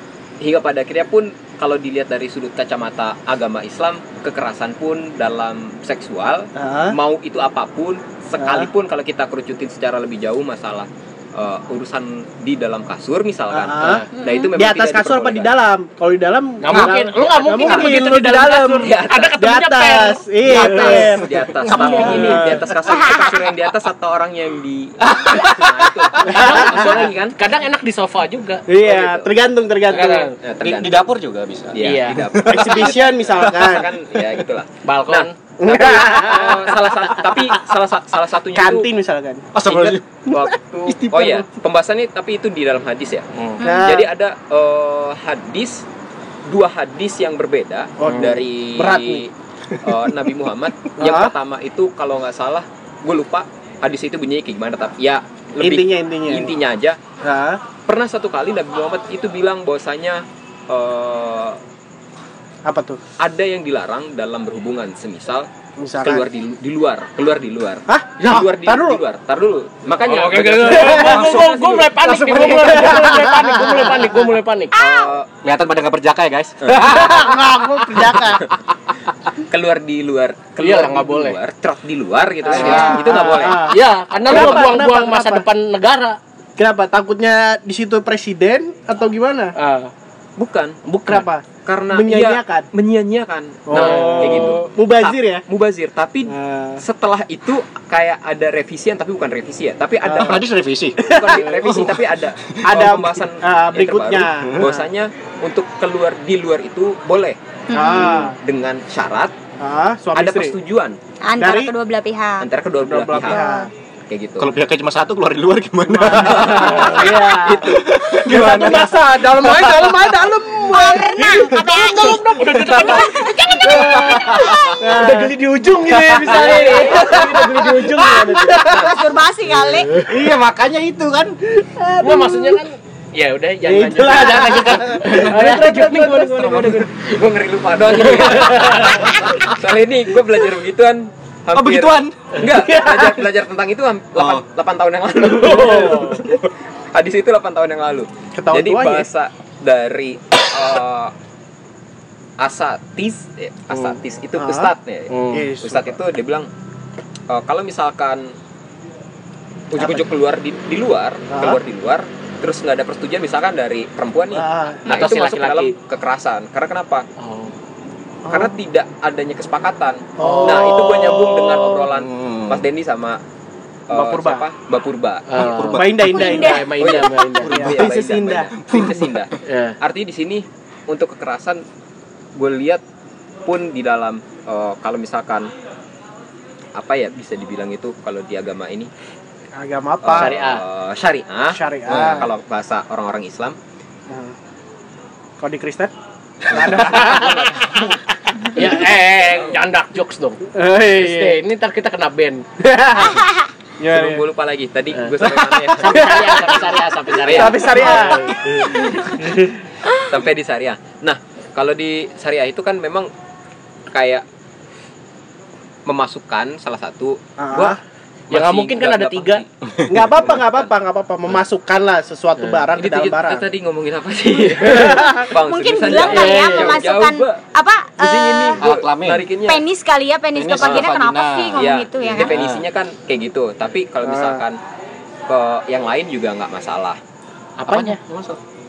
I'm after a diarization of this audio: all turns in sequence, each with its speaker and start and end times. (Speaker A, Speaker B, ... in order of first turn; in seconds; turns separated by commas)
Speaker A: 0.4-15.5, Speaker B: 6.6-7.0, Speaker B: 8.4-8.7, Speaker B: 13.5-22.6, Speaker C: 13.8-14.1, Speaker D: 14.1-14.5, Speaker C: 16.6-21.1, Speaker E: 16.7-18.1, Speaker A: 18.8-19.4, Speaker A: 20.4-27.4, Speaker E: 20.8-21.1, Speaker C: 21.6-22.5, Speaker E: 25.0-26.1, Speaker C: 26.3-28.6, Speaker B: 26.3-26.9, Speaker B: 28.7-30.4, Speaker A: 28.8-29.3, Speaker C: 29.9-30.3, Speaker A: 30.4-31.0, Speaker E: 30.6-33.8, Speaker A: 31.7-38.9, Speaker C: 31.8-32.2, Speaker B: 32.5-33.9, Speaker C: 34.8-35.3, Speaker B: 35.6-37.5, Speaker B: 38.5-39.6, Speaker E: 39.5-40.0, Speaker A: 39.6-45.9, Speaker B: 40.9-41.5, Speaker C: 43.3-43.6, Speaker D: 43.6-43.9, Speaker B: 43.6-44.1, Speaker A: 46.5-49.3, Speaker B: 48.0-49.2, Speaker A: 49.8-57.0, Speaker B: 51.0-51.3, Speaker B: 55.6-56.5, Speaker B: 57.2-57.6, Speaker A: 57.9-61.6, Speaker B: 62.6-63.0, Speaker A: 63.2-65.5, Speaker B: 65.8-66.2, Speaker A: 66.0-71.9, Speaker B: 67.9-69.0, Speaker C: 70.0-74.7, Speaker E: 70.7-73.8, Speaker B: 70.8-71.3, Speaker B: 72.5-73.7, Speaker D: 74.7-75.1, Speaker A: 74.7-75.3, Speaker E: 75.4-78.4, Speaker B: 76.8-78.5, Speaker A: 79.5-83.8, Speaker C: 80.6-81.4, Speaker B: 82.5-85.5, Speaker E: 82.5-83.6, Speaker D: 82.6-83.0, Speaker C: 83.7-86.2, Speaker B: 86.6-89.5, Speaker C: 89.6-89.9, Speaker A: 90.4-90.8, Speaker B: 90.9-92.7, Speaker A: 91.6-107.4, Speaker B: 93.7-95.4, Speaker C: 93.7-94.5, Speaker B: 96.3-96.8, Speaker B: 100.0-100.4, Speaker E: 100.2-102.8, Speaker B: 101.0-101.6, Speaker B: 102.6-104.8, Speaker E: 104.4-104.7, Speaker D: 107.7-108.3, Speaker B: 107.7-108.4, Speaker A: 108.0-109.3, Speaker B: 109.6-110.5, Speaker A: 110.2-111.0, Speaker D: 111.2-112.5, Speaker B: 111.4-111.7, Speaker A: 112.4-113.5, Speaker B: 112.8-113.7, Speaker D: 113.3-113.7, Speaker A: 114.1-114.5, Speaker E: 114.4-118.9, Speaker B: 115.9-117.7, Speaker A: 116.2-118.9, Speaker C: 116.3-117.7, Speaker C: 118.2-120.2, Speaker B: 118.4-129.0, Speaker D: 120.7-124.8, Speaker C: 121.5-128.7, Speaker E: 123.8-124.5, Speaker E: 126.2-127.1, Speaker D: 128.6-130.0, Speaker A: 128.7-129.0, Speaker E: 130.0-131.4, Speaker B: 131.6-132.6, Speaker C: 132.0-136.9, Speaker B: 133.6-136.9, Speaker A: 136.9-146.4, Speaker C: 138.1-139.0, Speaker E: 141.5-142.2, Speaker B: 142.5-143.2, Speaker E: 144.2-144.4, Speaker B: 145.3-146.2, Speaker C: 145.4-146.3, Speaker A: 146.9-151.1, Speaker B: 148.4-149.1, Speaker A: 152.4-156.5, Speaker B: 154.4-154.7, Speaker C: 155.1-155.5, Speaker B: 155.3-155.9, Speaker A: 157.3-158.4, Speaker A: 159.7-167.1, Speaker B: 159.8-160.0, Speaker B: 161.3-161.6, Speaker B: 164.3-164.9, Speaker C: 164.9-165.8, Speaker C: 167.2-167.5, Speaker B: 168.2-168.5, Speaker A: 168.3-173.2, Speaker B: 170.2-171.9, Speaker C: 170.2-170.8, Speaker E: 171.9-172.7, Speaker A: 173.9-175.3, Speaker B: 173.9-174.4, Speaker C: 175.3-177.7, Speaker E: 175.3-176.4, Speaker B: 175.6-178.6, Speaker D: 176.1-176.8, Speaker A: 176.5-181.6, Speaker E: 177.4-178.0, Speaker E: 178.6-179.2, Speaker C: 179.4-179.8, Speaker A: 182.3-182.8, Speaker A: 183.5-185.5, Speaker A: 186.8-188.9, Speaker B: 189.6-190.4, Speaker A: 190.0-193.6, Speaker C: 190.1-190.6, Speaker B: 191.5-192.3, Speaker E: 191.9-192.2, Speaker B: 194.1-194.3, Speaker B: 195.4-195.9, Speaker B: 196.5-197.9, Speaker C: 198.6-202.4, Speaker B: 200.6-201.4, Speaker B: 202.6-203.2, Speaker B: 203.8-204.2, Speaker A: 203.9-206.3, Speaker B: 205.2-206.7, Speaker C: 205.7-208.8, Speaker B: 207.3-209.3, Speaker A: 207.3-208.1, Speaker A: 208.8-209.1, Speaker A: 209.9-213.1, Speaker A: 213.9-214.2, Speaker A: 215.9-217.8, Speaker B: 217.4-217.8, Speaker A: 218.3-219.5, Speaker C: 218.3-219.4, Speaker B: 219.9-223.4, Speaker A: 220.3-220.6, Speaker C: 222.4-222.7, Speaker A: 222.8-227.4, Speaker B: 224.6-225.3, Speaker D: 225.2-228.6, Speaker C: 226.0-226.8, Speaker A: 228.0-229.7, Speaker E: 228.6-229.2, Speaker D: 229.5-232.3, Speaker E: 230.3-232.6, Speaker A: 230.6-230.9, Speaker A: 231.6-234.6, Speaker B: 234.0-234.4, Speaker A: 235.3-237.0, Speaker C: 237.6-238.0, Speaker E: 237.7-238.4